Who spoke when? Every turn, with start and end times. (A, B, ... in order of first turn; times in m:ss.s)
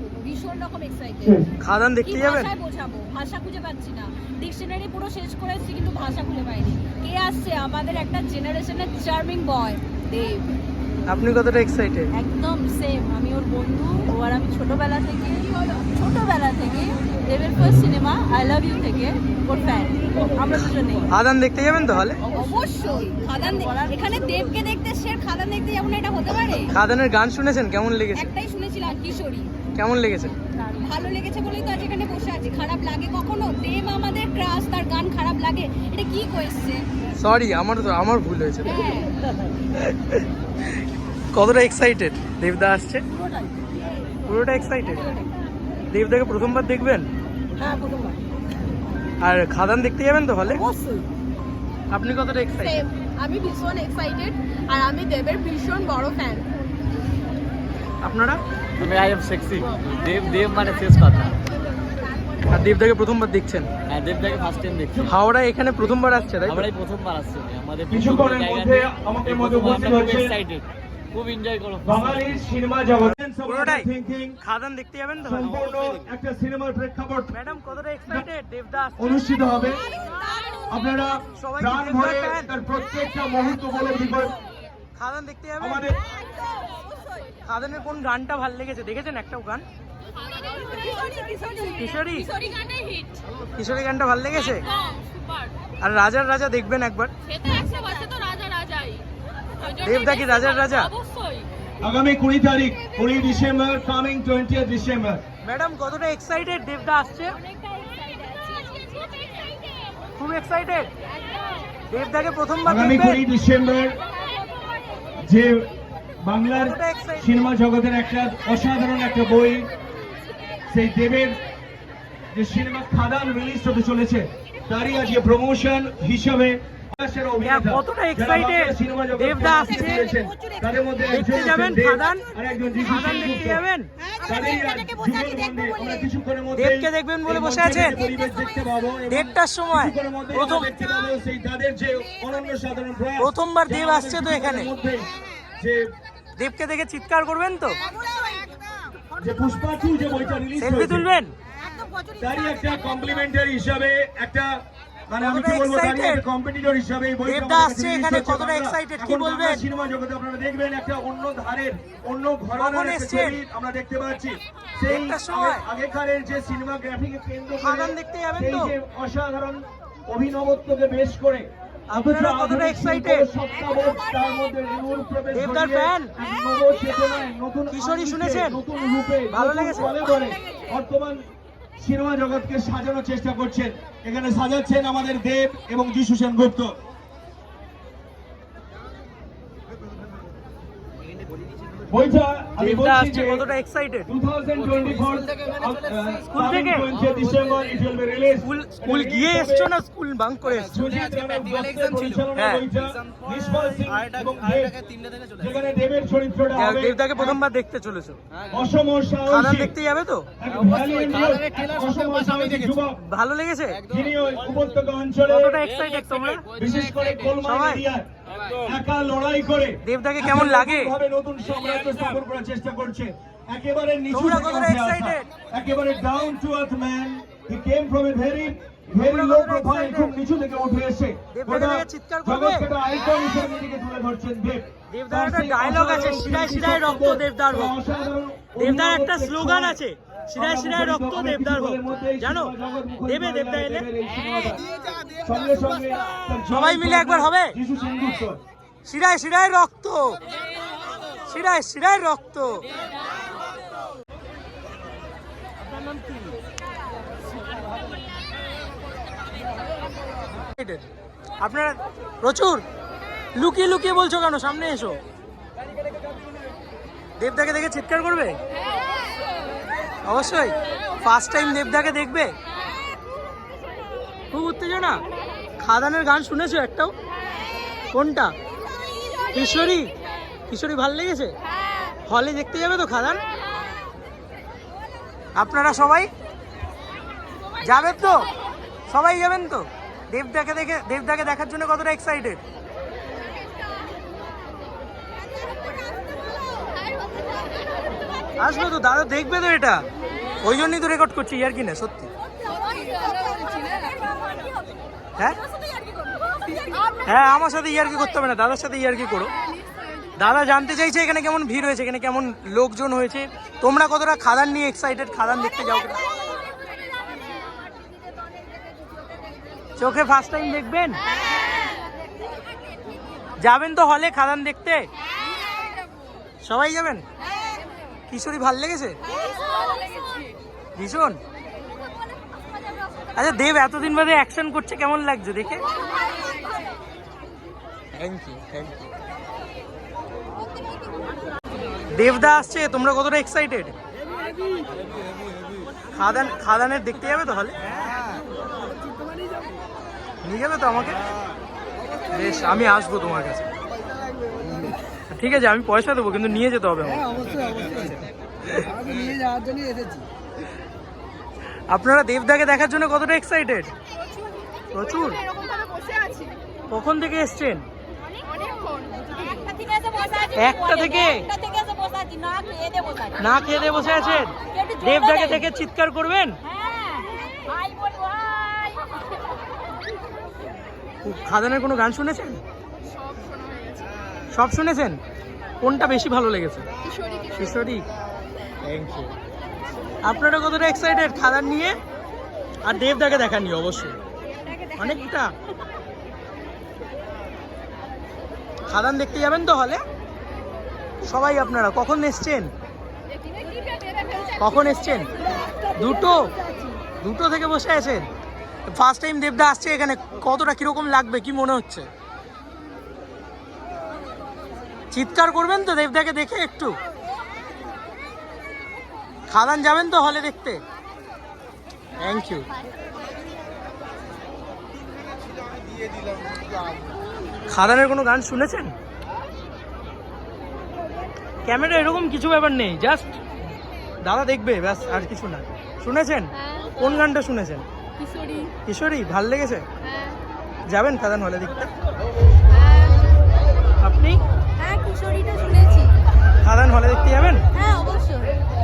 0:00.2-0:01.5 A
0:01.6-0:02.5 B
0:02.0-0:10.6 A
0:11.0-0:12.1 B
0:12.2-0:15.2 C
0:12.2-0:21.1 A
0:15.9-0:19.7 C
0:20.3-0:21.0 C
0:20.6-0:22.2 B
0:22.3-0:26.7 A
0:26.7-0:28.3 B
0:28.1-0:29.5 A
0:29.7-0:30.3 B
0:30.8-0:36.8 A
0:37.2-0:38.7 B
0:38.6-0:39.1 A
0:39.7-0:40.2 B
0:41.3-0:43.0 B
0:44.2-0:45.0 B
0:45.9-0:47.1 B
0:47.6-0:48.1 C
0:47.7-0:48.1 A
0:49.2-0:50.6 B
0:50.7-0:51.0 A
0:50.7-0:51.0 C
0:51.9-0:52.8 B
0:52.6-0:56.4 A
0:58.0-0:58.4 B
0:58.8-1:01.5 D
1:00.0-1:02.4 A
1:02.5-1:03.7 B
1:03.9-1:05.1 D
1:05.1-1:06.7 B
1:06.4-1:12.4 D
1:07.9-1:10.4 E
1:11.8-1:14.4 E
1:13.4-1:13.9 B
1:14.4-1:16.0 B
1:15.2-1:17.3 E
1:17.3-1:19.1 B
1:19.0-1:19.9 E
1:20.0-1:20.7 A
1:20.7-1:24.4 E
1:21.3-1:22.5 B
1:25.0-1:25.9 B
1:25.6-1:26.0 E
1:26.0-1:27.3 A
1:27.4-1:29.6 B
1:30.2-1:33.2 A
1:31.8-1:32.3 B
1:33.5-1:34.6 B
1:34.6-1:35.0 A
1:35.8-1:37.1 B
1:37.3-1:39.0 A
1:38.4-1:38.9 C
1:39.6-1:41.5 A
1:39.8-1:40.9 B
1:41.8-1:45.2 E
1:45.4-1:47.3 B
1:47.2-1:49.9 A
1:50.2-1:50.9 B
1:51.9-1:53.2 B
1:52.6-1:54.0 E
1:54.1-1:55.0 A
1:55.2-1:59.7 E
1:56.6-1:57.3 B
2:00.7-2:01.4 E
2:02.3-2:13.6 E
2:07.4-2:10.1 B
2:10.3-2:10.6 C
2:10.3-2:10.6 A
2:11.1-2:12.2 B
2:12.8-2:13.9 B
2:14.2-2:16.0 A
2:14.2-2:25.1 E
2:14.7-2:15.8 C
2:16.5-2:18.0 B
2:19.1-2:20.8 B
2:23.2-2:24.7 B
2:25.6-2:25.9 E
2:26.4-2:27.8 B
2:28.0-2:28.4 A
2:28.1-2:28.4 C
2:29.2-2:31.0 E
2:30.6-2:31.3 B
2:31.7-2:32.3 C
2:32.2-3:01.2 E
2:35.2-2:36.2 B
2:37.2-2:39.6 B
2:42.6-2:43.4 B
2:44.9-2:45.6 B
2:47.6-2:48.7 B
2:51.9-2:53.3 B
2:55.3-2:56.1 B
2:57.7-2:58.6 B
2:59.3-3:00.0 B
3:00.2-3:00.6 A
3:01.8-3:06.7 E
3:11.9-3:13.4 E
3:12.6-3:14.1 B
3:14.1-3:19.7 E
3:16.3-3:16.9 B
3:18.4-3:22.7 B
3:20.5-3:24.8 E
3:25.4-3:27.4 E
3:26.5-3:28.2 B
3:28.5-3:29.7 E
3:29.2-3:30.3 B
3:30.4-3:33.0 E
3:33.0-3:33.9 B
3:33.8-3:35.6 E
3:35.3-3:36.5 B
3:36.5-3:59.8 E
3:37.4-3:37.8 B
3:39.8-3:40.9 B
3:44.1-3:45.3 B
3:48.9-3:50.1 B
3:51.3-3:52.7 B
3:54.9-3:57.8 B
3:58.6-4:02.5 B
4:00.3-4:04.7 E
4:03.1-4:03.9 B
4:05.2-4:08.4 E
4:06.5-4:07.6 B
4:08.8-4:10.2 B
4:11.3-4:12.7 B
4:20.5-4:20.9 B
4:21.4-4:22.6 B
4:23.4-4:25.0 B
4:27.2-4:28.4 B
4:30.0-4:32.3 B
4:34.3-4:35.0 B
4:35.6-4:36.9 B
4:37.9-4:38.3 B
4:38.9-4:39.2 A
4:39.3-4:39.9 B
4:40.5-4:41.3 B
4:42.0-4:43.2 B
4:45.4-4:46.1 B
4:47.6-4:48.3 B
4:48.9-4:52.4 B
4:58.4-4:59.8 B
5:00.4-5:02.1 B
5:02.3-5:04.7 A
5:05.3-5:07.1 A
5:07.0-5:09.3 B
5:10.2-5:16.1 B
5:16.2-5:17.8 A
5:19.8-5:21.0 B
5:21.6-5:21.8 A
5:23.4-5:24.9 B
5:26.4-5:27.0 B
5:28.1-5:29.0 B
5:29.1-5:30.3 A
5:30.8-5:31.2 B
5:33.2-5:35.6 B
5:36.2-5:36.4 A
5:37.9-5:38.8 B
5:40.6-5:41.1 A
5:41.9-5:43.7 B
5:45.9-5:47.6 B
5:50.2-5:51.0 B
5:52.1-5:53.5 B
5:55.1-5:58.8 B
5:59.1-6:00.0 C
6:01.7-6:03.7 B
6:04.7-6:05.2 B
6:05.0-6:06.4 A
6:06.7-6:07.6 B
6:08.3-6:15.5 A
6:10.4-6:11.3 B
6:13.2-6:16.4 B
6:16.4-6:19.1 A
6:21.0-6:22.4 B
6:23.2-6:23.8 A
6:24.3-6:25.0 B
6:25.6-6:26.6 B
6:26.8-6:27.4 A
6:27.3-6:27.8 B
6:28.6-6:29.1 B
6:30.0-6:31.8 B
6:32.6-6:34.0 B
6:34.4-6:35.1 A
6:34.8-6:35.3 B
6:38.7-6:39.8 B
6:41.0-6:42.5 B
6:43.1-6:46.8 A
6:44.4-6:45.1 B
6:45.7-6:46.3 B
6:47.0-6:48.1 B
6:48.7-6:51.9 B
6:54.9-6:56.8 B
6:59.3-7:00.6 B
7:02.0-7:02.5 B
7:07.5-7:08.7 B
7:11.4-7:13.1 B
7:14.0-7:17.6 B
7:16.3-7:16.8 A
7:18.0-7:18.5 A
7:18.6-7:19.6 B
7:19.8-7:20.2 A
7:20.7-7:21.7 B
7:22.5-7:23.2 A
7:23.8-7:24.2 B
7:24.6-7:25.9 A
7:26.4-7:27.4 B
7:27.5-7:28.4 A